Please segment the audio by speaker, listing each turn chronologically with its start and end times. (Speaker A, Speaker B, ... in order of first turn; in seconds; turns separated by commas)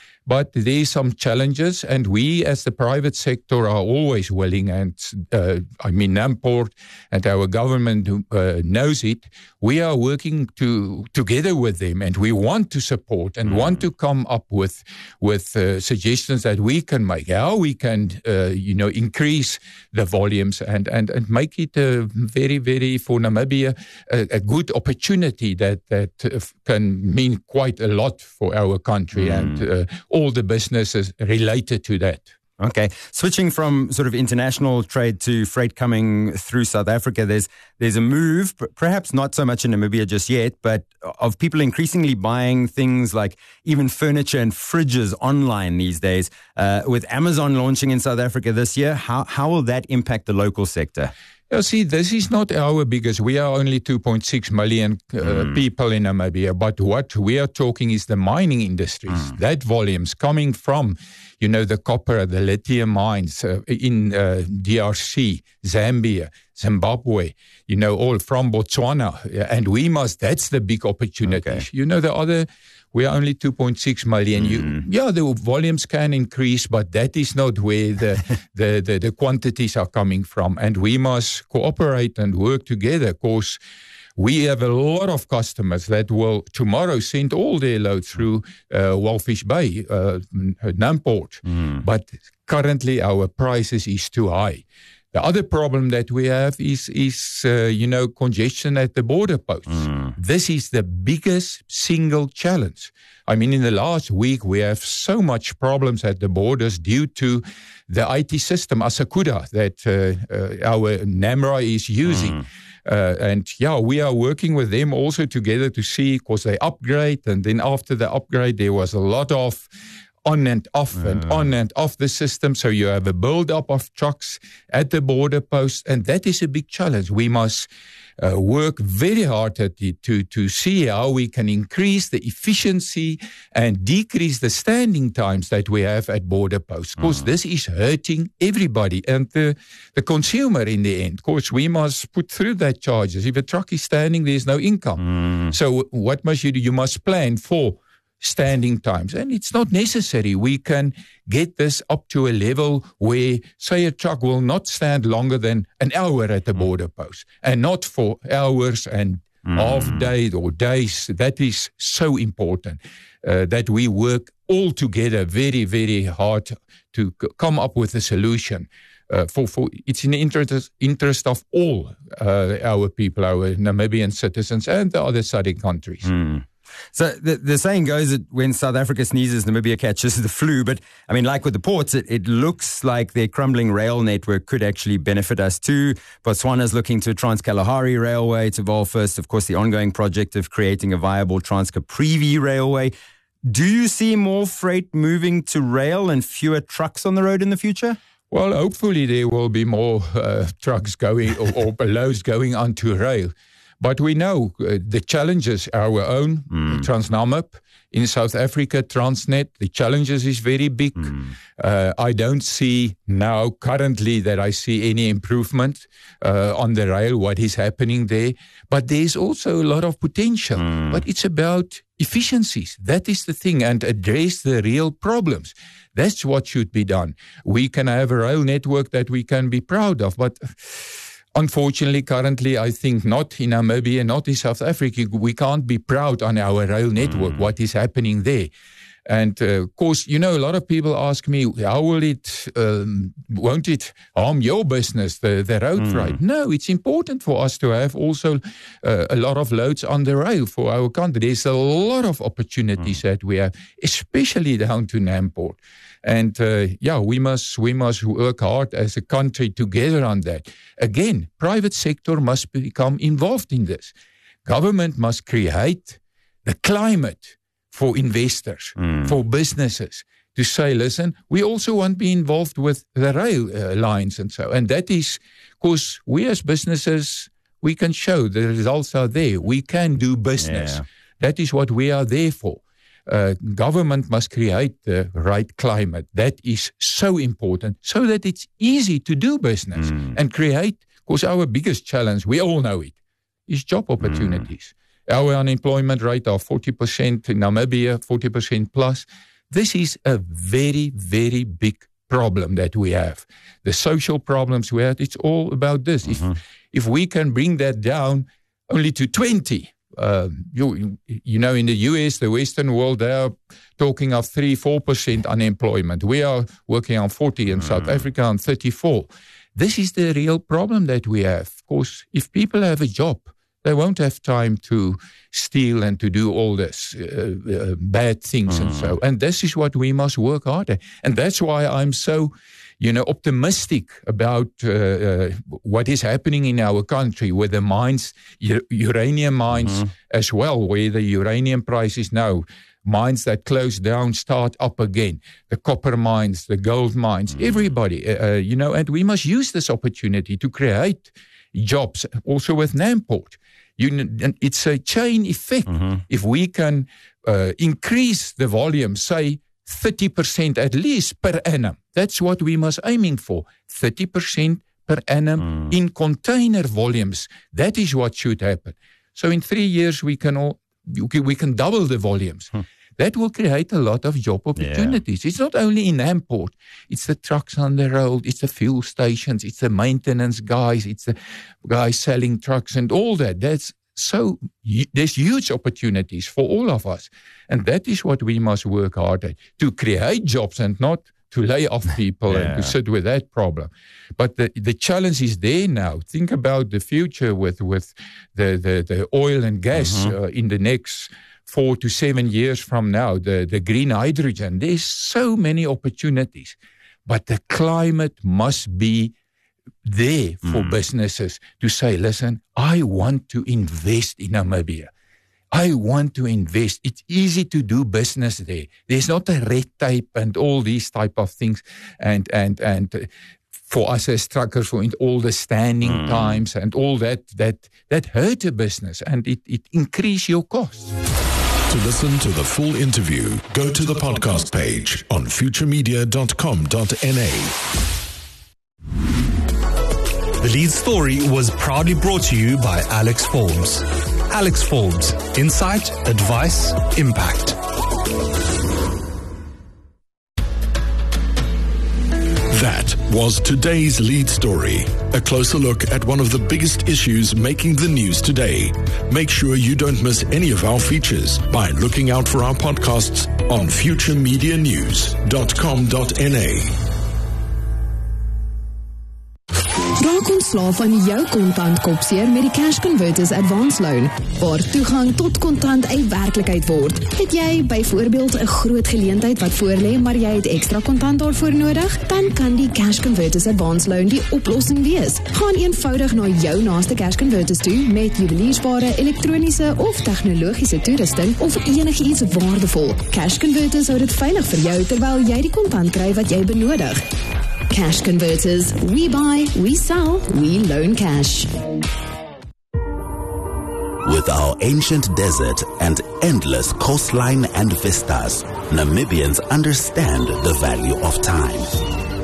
Speaker A: 0.3-32.3, Speaker B: 13.5-13.8, Speaker B: 29.2-29.6, Speaker B: 32.6-51.1, Speaker A: 51.5-83.6, Speaker B: 71.3-71.7, Speaker B: 74.4-74.8, Speaker A: 84.2-119.7, Speaker B: 99.8-100.1, Speaker B: 112.1-112.4, Speaker A: 120.2-127.7, Speaker A: 128.2-176.1, Speaker B: 145.2-145.5, Speaker B: 159.5-160.1, Speaker B: 176.0-192.9, Speaker B: 193.4-198.0, Speaker A: 198.3-238.5, Speaker B: 206.5-206.9, Speaker B: 211.0-211.3, Speaker B: 220.6-221.0, Speaker A: 239.1-263.9, Speaker B: 245.8-246.2, Speaker A: 264.5-292.9, Speaker B: 268.8-269.1, Speaker B: 280.4-280.9, Speaker B: 289.8-290.2, Speaker A: 293.5-409.1, Speaker B: 294.0-294.4, Speaker B: 328.6-328.9, Speaker B: 339.6-339.9, Speaker B: 365.4-365.7, Speaker B: 374.6-375.0, Speaker B: 392.3-392.7, Speaker B: 399.8-400.1, Speaker A: 409.9-414.9, Speaker A: 415.5-423.1, Speaker A: 423.7-430.9, Speaker B: 425.9-426.4, Speaker C: 431.7-437.6, Speaker D: 440.4-447.6, Speaker C: 452.5-466.7, Speaker E: 470.0-497.1, Speaker E: 497.7-501.6, Speaker F: 504.0-511.8